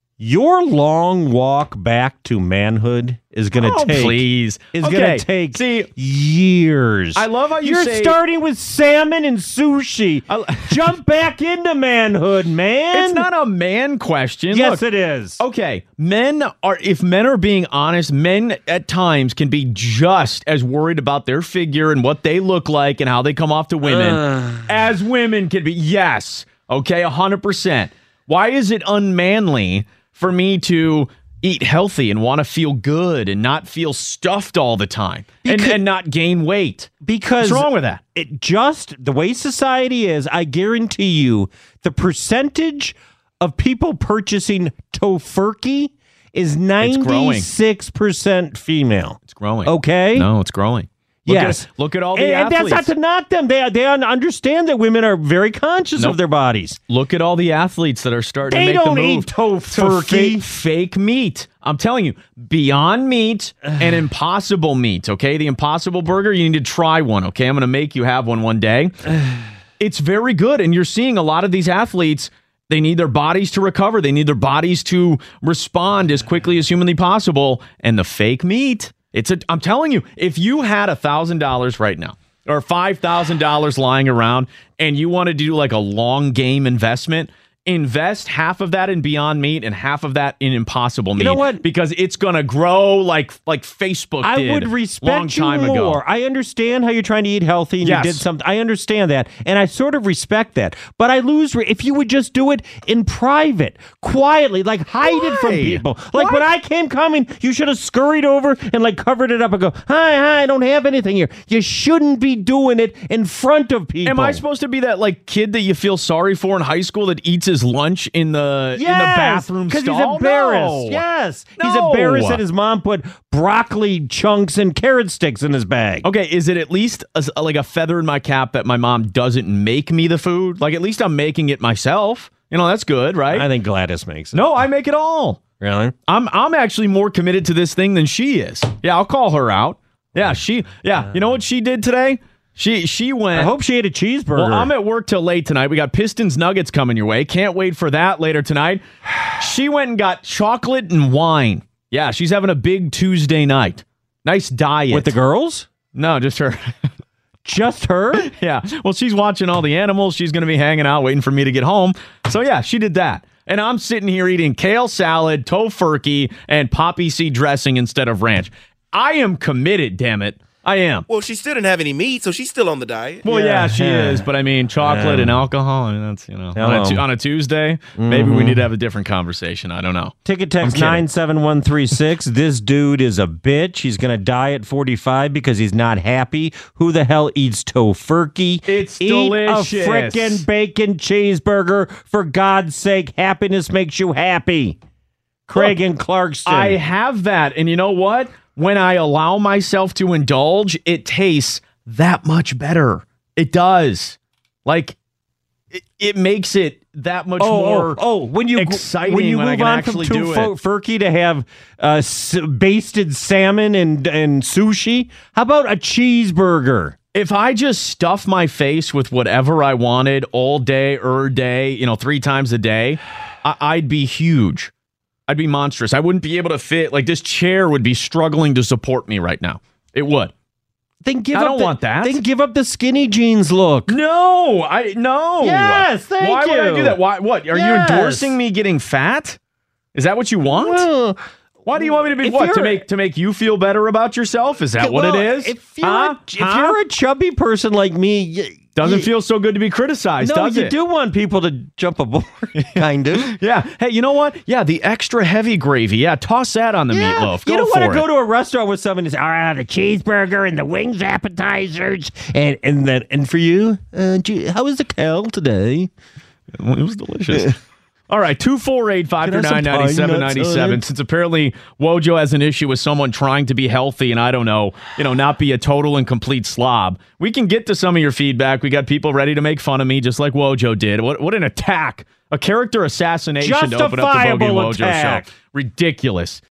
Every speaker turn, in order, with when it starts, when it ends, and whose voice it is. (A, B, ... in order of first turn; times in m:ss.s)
0:00.2-0:13.3 A
0:03.6-0:05.9 B
0:07.1-0:08.2 B
0:10.3-0:11.0 B
0:12.9-0:14.8 B
0:14.5-0:15.4 A
0:15.4-0:38.0 B
0:23.8-0:24.6 A
0:35.4-0:35.8 A
0:37.0-0:50.3 A
0:46.8-0:47.5 B
0:49.3-0:52.9 B
0:51.2-0:56.8 A
0:56.9-1:09.1 B
0:58.4-1:00.5 A
1:09.8-1:36.0 B
1:31.2-1:31.6 A
1:34.2-1:54.4 A
1:37.8-1:38.3 B
1:45.0-1:46.4 B
1:54.0-2:01.0 B
1:58.8-2:06.1 A
2:01.6-2:02.4 B
2:06.0-2:13.5 B
2:13.3-2:14.4 A
2:14.3-2:15.4 B
2:15.6-2:15.9 A
2:16.1-2:23.5 B
2:23.3-2:24.7 A
2:24.3-2:35.2 B
2:34.9-2:35.7 A
2:35.9-2:36.6 B
2:37.4-2:38.3 A
2:38.1-2:51.1 B
2:51.1-2:53.2 C
2:53.2-3:01.0 B
2:53.2-2:55.5 A
2:56.5-2:57.0 A
2:58.0-2:58.7 A
3:00.2-3:14.8 A
3:08.6-3:10.4 B
3:15.5-3:16.8 A
3:16.4-3:25.0 B
3:25.7-3:28.0 B
3:27.4-3:36.9 A
3:28.5-3:30.5 B
3:37.1-3:44.7 B
3:45.3-3:50.3 B
3:51.0-3:54.0 A
3:51.3-3:52.2 B
3:53.9-3:59.4 B
3:55.4-3:57.0 A
3:57.5-3:58.4 A
3:59.9-4:00.9 B
4:00.4-4:01.2 A
4:01.6-4:06.8 B
4:01.8-4:02.8 A
4:04.8-4:09.1 A
4:08.8-4:10.7 B
4:10.2-4:13.3 A
4:12.6-4:18.1 B
4:16.9-4:25.9 A
4:26.5-4:27.6 B
4:28.1-4:46.4 B
4:29.2-4:30.8 A
4:43.4-4:45.3 A